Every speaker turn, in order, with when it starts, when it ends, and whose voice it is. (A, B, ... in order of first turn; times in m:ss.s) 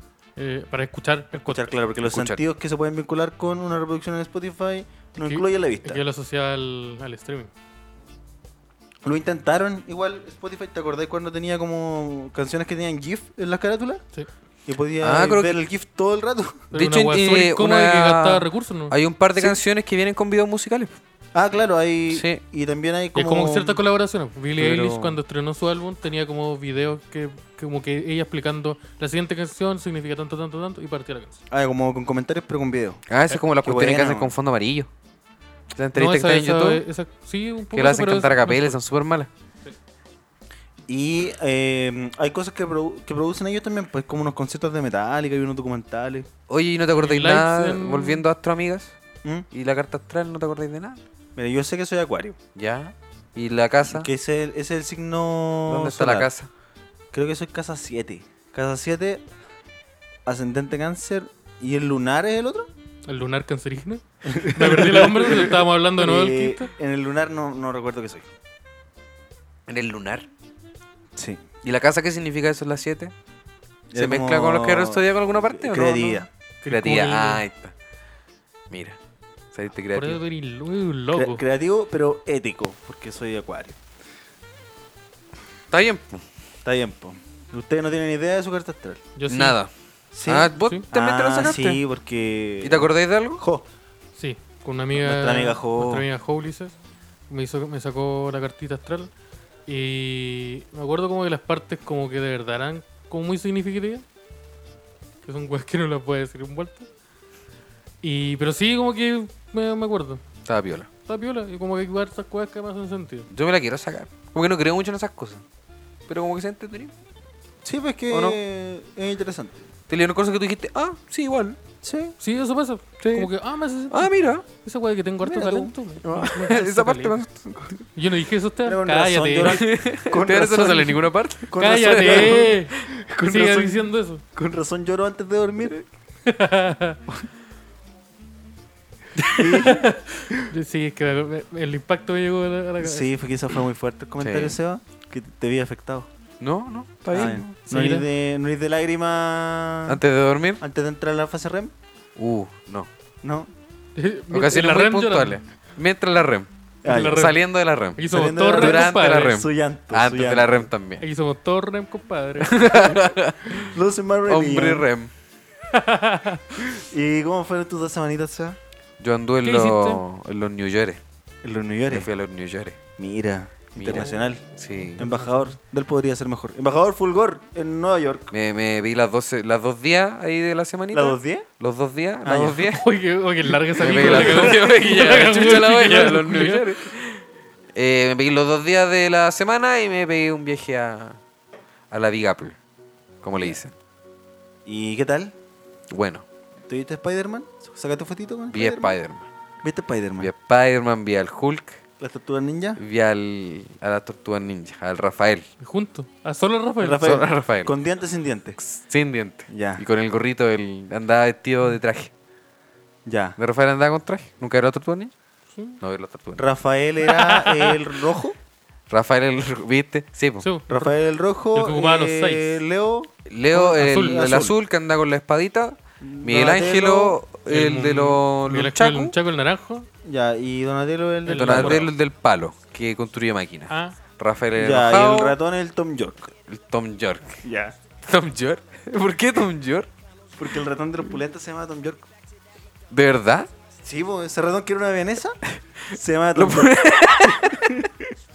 0:00.4-0:01.7 A
0:01.5-0:06.0 B
0:02.0-0:02.4 C
0:05.2-0:07.5 A
0:09.0-0:14.0 B
0:14.7-0:16.7 B
0:15.0-0:15.6 C
0:16.7-0:18.9 A
0:16.7-0:21.0 C
0:21.3-0:23.8 B
0:22.1-0:22.4 C
0:23.2-0:31.3 A
0:24.6-0:25.2 C
0:31.5-0:33.0 B
0:33.1-0:34.9 C
0:33.6-0:34.3 B
0:35.7-0:36.8 C
0:35.9-0:38.8 A
0:37.7-0:39.3 C
0:40.9-0:46.3 B
0:46.5-0:49.0 C
0:47.0-0:48.2 A
0:49.5-0:51.0 C
0:51.4-0:52.4 B
0:52.6-0:54.1 C
0:53.9-0:56.3 B
0:55.7-0:56.5 C
0:57.1-0:59.2 B
1:00.3-1:02.7 B
1:03.1-1:06.7 A
1:04.2-1:08.3 B
1:09.7-1:10.3 C
1:11.2-1:11.4 B
1:11.6-1:13.1 C
1:13.9-1:16.3 B
1:13.9-1:17.7 C
1:16.6-1:17.4 A
1:18.7-1:19.0 C
1:19.5-1:20.2 C
1:19.9-1:21.4 A
1:21.1-1:23.8 B
1:25.7-1:26.2 C
1:26.6-1:29.0 B
1:29.2-1:29.6 A
1:29.3-1:29.7 C
1:30.1-1:33.6 B
1:30.2-1:31.8 C
1:32.6-1:33.4 C
1:34.2-1:36.8 A
1:34.9-1:36.0 B
1:37.3-1:39.1 A
1:39.7-1:44.0 A
1:45.2-1:46.9 A
1:48.0-1:50.2 A
1:50.4-1:50.9 C
1:51.1-1:53.3 A
1:53.3-1:55.4 C
1:56.1-1:56.9 C
1:57.6-1:59.7 B
1:58.1-1:58.4 C
1:59.9-2:01.6 C
2:01.8-2:02.2 B
2:02.2-2:07.2 A
2:03.0-2:03.3 C
2:03.9-2:04.4 C
2:05.2-2:06.5 B
2:06.4-2:07.8 C
2:08.0-2:09.6 A
2:08.6-2:15.8 B
2:09.4-2:13.1 C
2:11.6-2:14.2 A
2:16.2-2:17.0 A
2:19.2-2:23.1 A
2:19.4-2:20.3 B
2:22.8-2:26.1 B
2:24.2-2:24.6 C
2:26.4-2:27.5 C
2:27.1-2:30.0 B
2:27.7-2:28.1 A
2:29.9-2:30.6 C
2:30.6-2:31.7 B
2:32.2-2:32.9 C
2:33.2-2:33.5 B
2:34.0-2:35.4 A
2:34.3-2:38.1 C
2:36.8-2:37.3 B
2:36.9-2:37.4 A
2:38.0-2:39.4 A
2:38.1-2:40.7 B
2:38.6-2:41.0 C
2:41.0-2:42.7 A
2:42.4-2:43.7 C
2:43.5-2:44.9 B
2:44.3-2:45.1 C
2:45.7-2:46.6 A
2:46.7-2:48.6 B
2:49.0-2:51.0 C
2:49.4-2:50.0 A
2:51.4-2:52.1 B
2:51.9-2:52.8 C
2:53.0-2:54.4 B
2:53.8-2:55.0 C
2:55.0-2:58.3 B
2:55.0-2:55.5 A
2:58.3-3:02.8 C
3:00.9-3:01.5 B
3:02.2-3:02.7 B
3:02.7-3:06.7 A
3:03.8-3:07.2 C
3:07.8-3:11.2 C
3:11.9-3:12.6 C
3:13.2-3:13.7 C
3:14.7-3:15.3 B
3:15.9-3:16.2 C
3:16.7-3:19.0 B
3:18.5-3:19.2 C
3:19.6-3:20.3 B
3:20.2-3:21.8 C
3:22.0-3:22.8 B
3:22.8-3:25.5 C
3:25.6-3:27.0 A
3:26.8-3:28.6 B
3:27.0-3:27.7 C
3:28.6-3:32.1 C
3:29.5-3:29.8 B
3:33.1-3:33.4 B
3:33.4-3:35.1 C
3:35.8-3:36.4 C
3:36.4-3:38.4 B
3:37.0-3:37.8 A
3:38.9-3:40.5 C
3:40.4-3:40.9 A
3:40.7-3:44.6 B
3:41.5-3:42.6 A
3:43.3-3:49.2 C
3:43.8-3:44.2 A
3:46.0-3:47.2 B
3:47.5-3:49.9 A
3:50.0-3:51.9 B
3:51.3-3:51.8 A
3:51.3-3:55.4 C
3:53.7-3:54.0 A
3:54.6-3:56.3 B
3:56.5-3:57.4 C
3:57.4-3:57.8 B
3:58.0-3:59.9 C
4:00.4-4:02.1 B
4:02.9-4:03.5 C
4:03.8-4:05.4 B
4:05.9-4:08.1 B
4:06.4-4:07.8 C